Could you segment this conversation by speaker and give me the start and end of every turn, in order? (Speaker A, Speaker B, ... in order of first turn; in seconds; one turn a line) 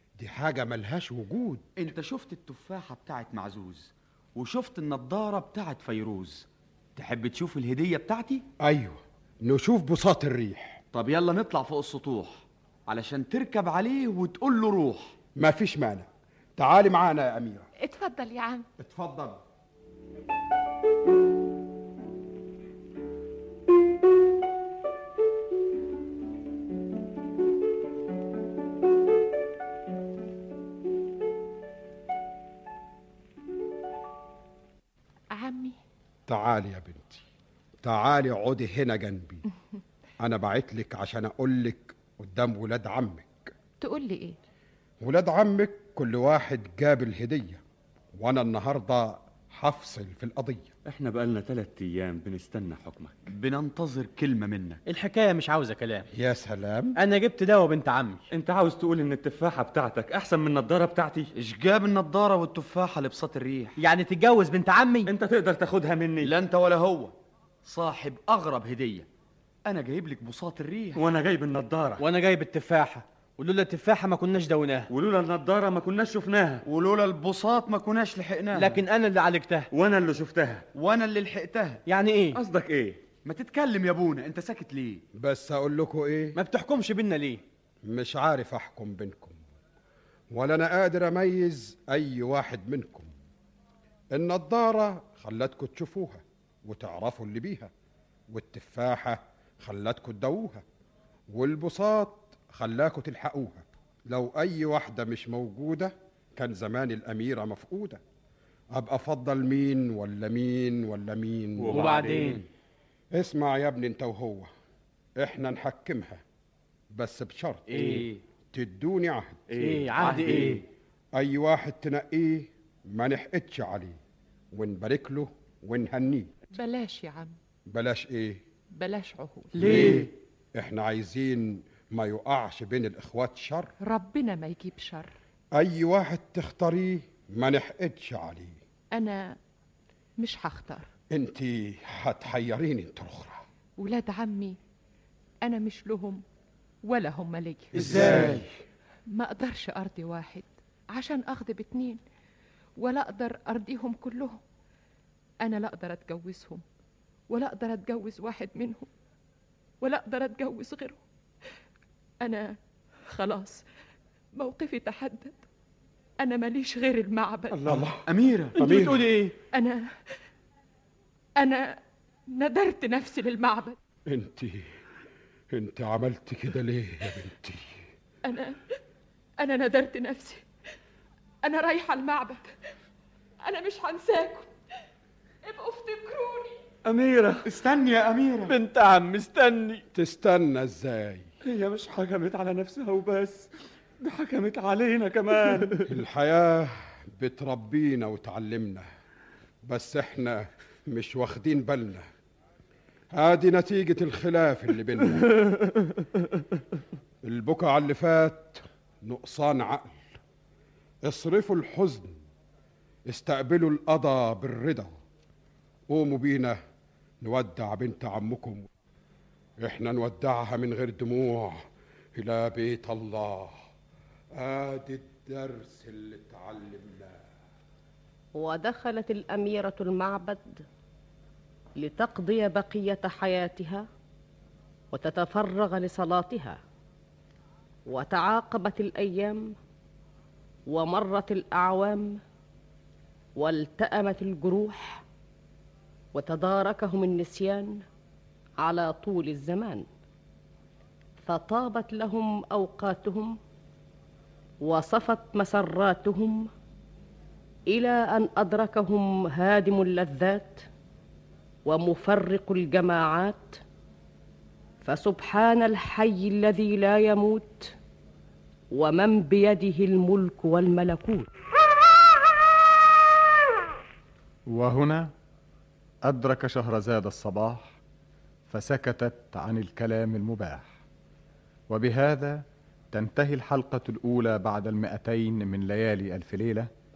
Speaker A: 0.2-1.6
Speaker B: 1.8-8.4
Speaker A: 8.6-10.8
Speaker B: 10.9-15.2
Speaker A: 15.4-17.7
Speaker C: 17.8-18.7
Speaker A: 18.8-19.4
Speaker C: 35.4-35.8
Speaker A: 36.3-37.2
Speaker A: 37.8-39.4
Speaker A: 40.2-43.5
Speaker C: 43.8-44.4
Speaker A: 45.0-47.6
Speaker A: 48.2-50.7
Speaker D: 50.9-53.2
Speaker B: 53.3-54.8
Speaker E: 54.9-56.1
Speaker A: 56.1-57.0
Speaker E: 57.0-58.2
Speaker D: 58.3-61.3
Speaker B: 61.4-63.8
Speaker E: 63.8-65.1
Speaker D: 65.1-66.3
Speaker B: 66.2-67.1
Speaker B: 67.7-69.1
Speaker B: 69.7-71.0
Speaker D: 71.0-72.0
Speaker E: 72.0-74.9
Speaker D: 74.9-76.6
Speaker B: 76.7-78.8
Speaker E: 78.5-79.7
Speaker D: 79.7-80.7
Speaker B: 80.7-81.8
Speaker E: 81.9-82.4
Speaker D: 82.4-83.1
Speaker B: 83.1-85.0
Speaker A: 85.2-86.4
Speaker E: 86.3-87.4
Speaker A: 87.8-89.4
Speaker A: 90.3-93.1
Speaker A: 94.1-97.7
Speaker A: 98.3-100.6
Speaker A: 101.3-108.0
Speaker A: 108.7-112.1
Speaker D: 111.7-112.3
Speaker E: 111.7-112.4
Speaker A: 113.1-114.5
Speaker A: 115.2-116.2
Speaker A: 116.9-118.0
Speaker E: 117.7-118.1
Speaker A: 118.5-119.5
Speaker E: 119.6-120.6
Speaker D: 119.7-120.5
Speaker A: 121.2-124.0
Speaker A: 124.5-126.4
Speaker C: 126.5-127.4
Speaker A: 127.7-128.4
Speaker C: 128.8-129.6
Speaker E: 129.5-130.1
Speaker A: 129.6-133.7
Speaker C: 133.8-135.1
Speaker A: 135.6-138.6
Speaker C: 138.9-139.4
Speaker C: 140.2-140.9
Speaker A: 141.1-143.4
Speaker C: 143.8-144.6
Speaker C: 145.4-146.2
Speaker C: 146.8-147.7
Speaker E: 147.8-148.4
Speaker A: 147.8-148.4
Speaker D: 147.8-148.4
Speaker C: 149.1-152.0
Speaker C: 152.8-154.4
Speaker C: 155.4-156.6
Speaker C: 157.3-158.9
Speaker C: 159.8-161.0
Speaker C: 162.2-162.6
Speaker C: 163.1-163.6
Speaker C: 164.4-165.5
Speaker C: 166.2-167.7
Speaker A: 167.6-168.0
Speaker D: 167.7-167.9
Speaker B: 168.1-168.5
Speaker E: 168.5-169.4
Speaker A: 168.6-169.1
Speaker C: 169.5-170.2
Speaker C: 171.4-171.8
Speaker C: 172.3-173.8
Speaker A: 174.1-174.8
Speaker A: 175.5-177.8
Speaker C: 178.2-178.6
Speaker C: 179.4-180.4
Speaker C: 181.4-182.5
Speaker C: 183.4-184.5
Speaker C: 185.4-186.6
Speaker D: 186.8-188.4
Speaker E: 188.5-189.8
Speaker A: 189.9-191.3
Speaker D: 191.4-193.5
Speaker D: 194.0-195.9
Speaker A: 195.9-198.9
Speaker A: 199.7-202.1
Speaker A: 203.1-205.3
Speaker A: 207.2-210.2
Speaker A: 211.1-212.2
Speaker A: 213.1-215.0
Speaker A: 215.9-216.6
Speaker A: 217.2-218.7
Speaker A: 219.6-223.6
Speaker A: 224.3-227.2
Speaker F: 228.4-230.7
Speaker F: 231.8-233.9
Speaker F: 234.9-236.6
Speaker F: 237.9-239.6
Speaker F: 240.7-242.2
Speaker F: 243.4-245.0
Speaker F: 246.1-247.8
Speaker F: 248.6-249.8
Speaker F: 251.2-253.4
Speaker F: 254.6-256.5
Speaker F: 257.7-260.7
Speaker F: 261.7-263.6
Speaker F: 264.8-267.7
Speaker F: 268.7-271.3
Speaker G: 274.5-275.1
Speaker G: 276.1-277.8
Speaker G: 278.5-280.8
Speaker G: 281.7-286.7